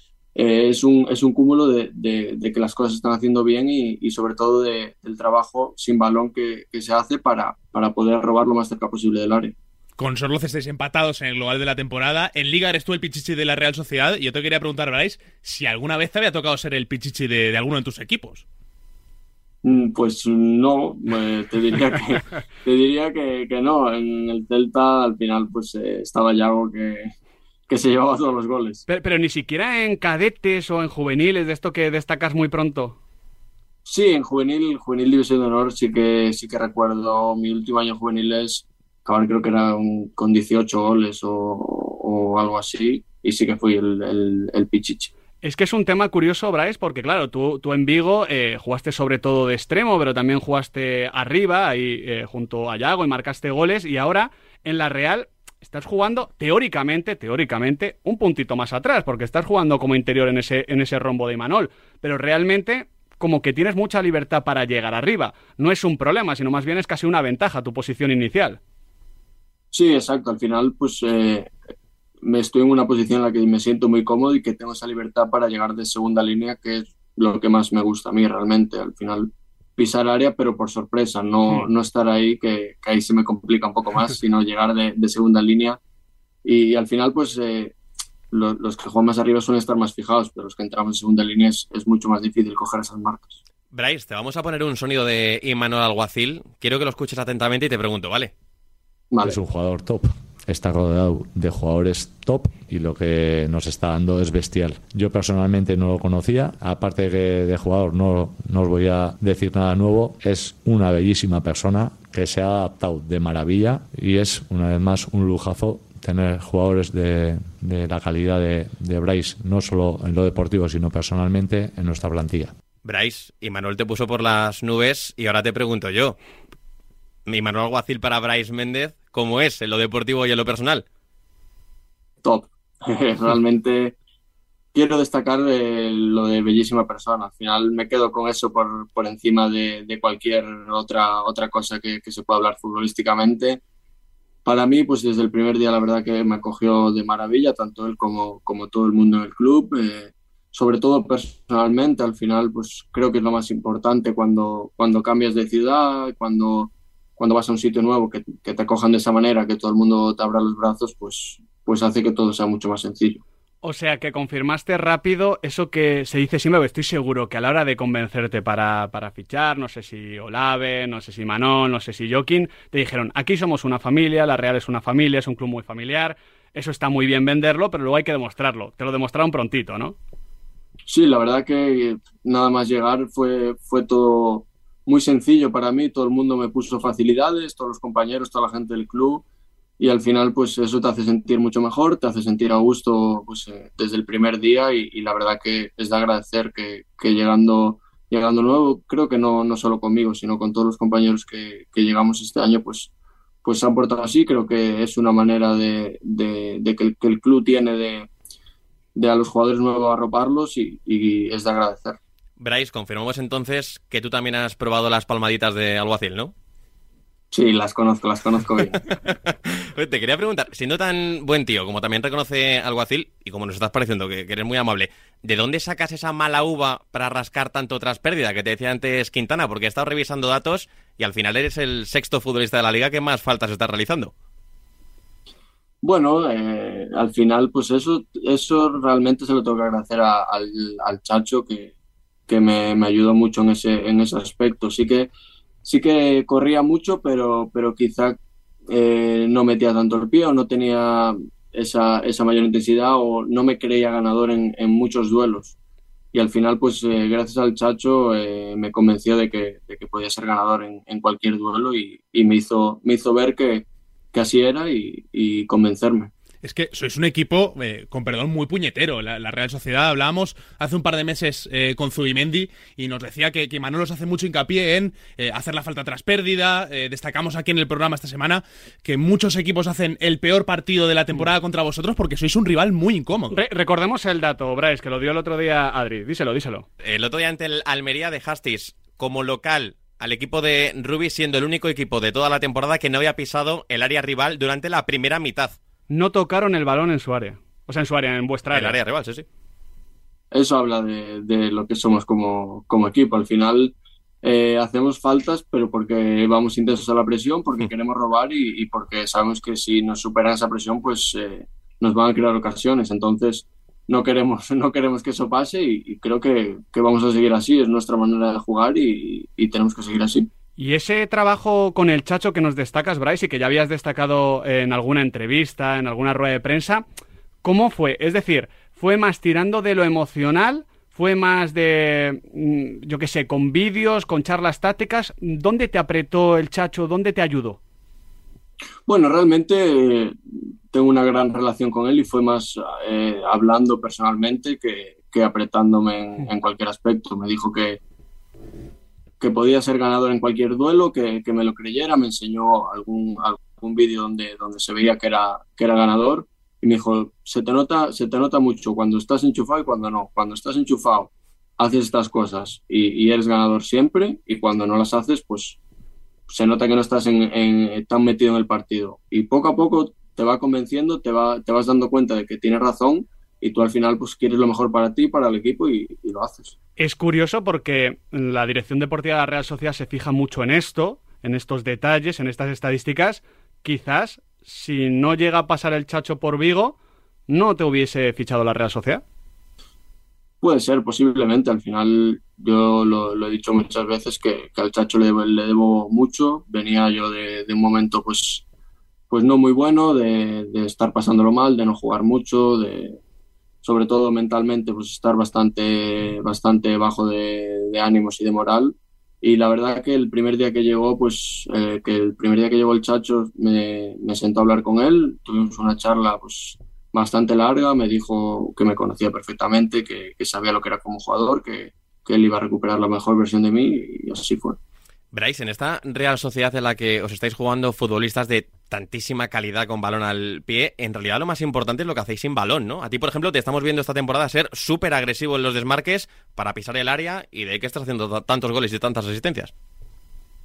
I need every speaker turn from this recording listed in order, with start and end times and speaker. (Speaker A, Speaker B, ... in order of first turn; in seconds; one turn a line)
Speaker A: 0.4-9.5
Speaker B: 10.0-18.4
Speaker A: 19.6-27.1
Speaker A: 27.7-28.8
Speaker C: 28.9-33.0
Speaker A: 33.9-45.1
Speaker C: 45.4-68.6
Speaker A: 69.7-71.5
Speaker A: 72.2-85.8
Speaker A: 86.4-87.7
Speaker A: 88.3-93.4
Speaker D: 93.7-98.3
Speaker A: 99.1-99.4
Speaker E: 99.2-122.5
Speaker D: 122.8-126.2
Speaker D: 127.3-130.8
Speaker A: 132.2-133.9
Speaker A: 134.7-143.6
Speaker A: 144.4-163.2
Speaker C: 163.6-179.9
Speaker A: 180.9-189.2
Speaker A: 189.8-202.9
Speaker A: 203.4-208.1
Speaker A: 208.9-212.0
Speaker D: 212.4-216.3
Speaker A: 217.3-218.8
Speaker D: 219.1-234.1
Speaker A: 235.8-241.7
Speaker A: 242.3-245.1
Speaker A: 245.6-248.2
Speaker A: 248.7-255.6
Speaker A: 256.1-266.1
Speaker B: 266.4-283.4
Speaker C: 283.3-286.7
Speaker D: 286.8-295.6
Speaker C: 295.9-298.8
Speaker D: 298.5-299.2
Speaker A: 300.3-320.3
Speaker C: 320.6-326.8
Speaker C: 327.4-337.6
Speaker A: 338.9-340.2
Speaker A: 340.7-347.8
Speaker A: 349.2-365.6
Speaker A: 366.3-376.6
Speaker C: 376.8-386.8
Speaker C: 387.3-389.0
Speaker A: 390.4-398.4
Speaker A: 399.1-403.0
Speaker A: 403.6-424.6
Speaker D: 425.1-439.5